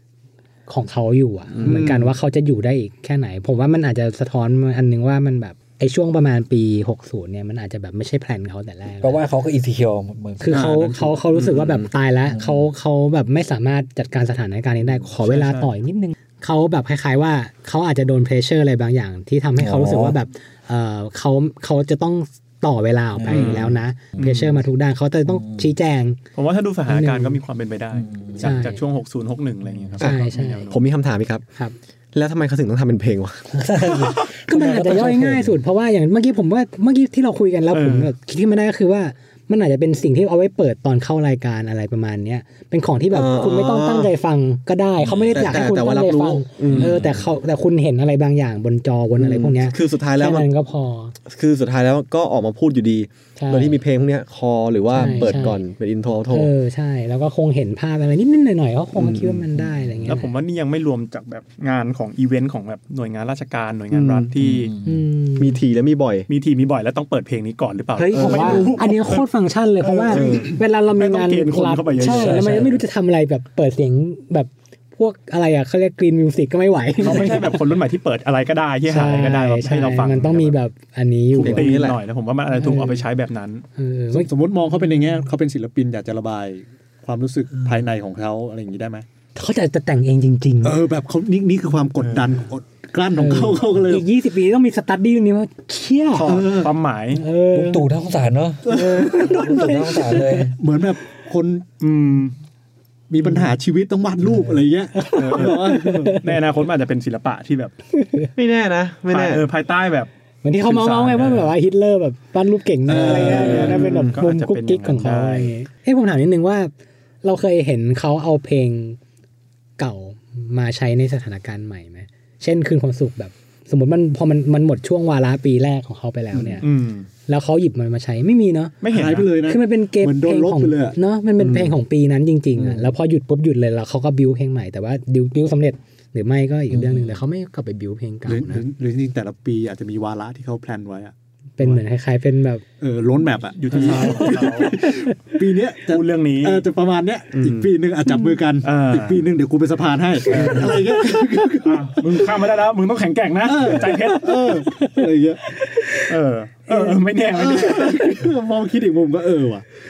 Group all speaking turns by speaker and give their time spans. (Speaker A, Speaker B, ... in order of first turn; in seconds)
Speaker A: 0.7-9.2, 10.4-26.2, 26.9-27.4, 28.4-28.8, 30.0-30.8, 33.5-51.1, 53.4-53.8, 54.9-55.6, 56.3-60.3, 64.8-65.6, 68.0-77.6, 78.9-81.8, 82.5-83.0, 83.8-84.3, 89.3-90.8, 93.1-96.4, 97.1-97.9, 98.7-100.5, 105.0-106.4, 108.0-108.3, 110.4-116.7, 117.2-119.0, 119.8-126.7, 127.3-128.8, 129.4-138.6, 141.6-142.7, 143.7-145.2, 150.3-151.2, 153.8-156.1, 156.7-157.0, 157.7-158.2
Speaker B: 1.6-1.8, 11.3-11.9, 30.0-31.4, 32.1-33.5, 43.1-44.1, 45.3-47.0, 49.2-50.5, 51.3-56.5, 59.0-59.4, 63.9-64.3, 65.4-66.3, 68.1-68.8, 70.1-70.5, 81.4-82.0, 108.4-109.4, 113.0-114.2, 147.3-147.7
Speaker C: 1.6-2.1, 10.5-10.9, 84.1-89.0, 90.6-94.1, 96.2-96.7, 98.7-99.3, 100.6-101.7, 103.1-106.2, 112.9-114.1, 126.3-126.6, 128.9-131.0, 132.6-132.9, 138.3-141.1, 142.8-152.1, 153.4-155.4, 157.3-159.7
Speaker D: 9.0-10.9, 12.3-12.7, 19.6-20.2, 23.2-24.2, 25.3-25.7, 27.9-28.5, 33.6-35.6, 45.0-45.5, 46.7-47.2, 55.0-55.3, 59.6-60.2, 64.4-65.0, 72.0-72.8, 97.5-100.5, 136.7-137.1
Speaker E: 15.2-15.7, 23.3-24.5, 26.4-30.8, 37.7-38.1, 60.1-64.7, 66.3-69.3, 69.8-72.8, 77.0-80.6, 81.3-83.7, 96.1-97.2, 101.8-102.3, 105.2-107.7, 109.1-111.5, 112.9-115.5, 126.6-127.1, 128.8-129.3, 143.6-144.8, 145.9-146.7, 148.6-149.2, 150.3-150.8, 151.6-154.6, 156.1-158.1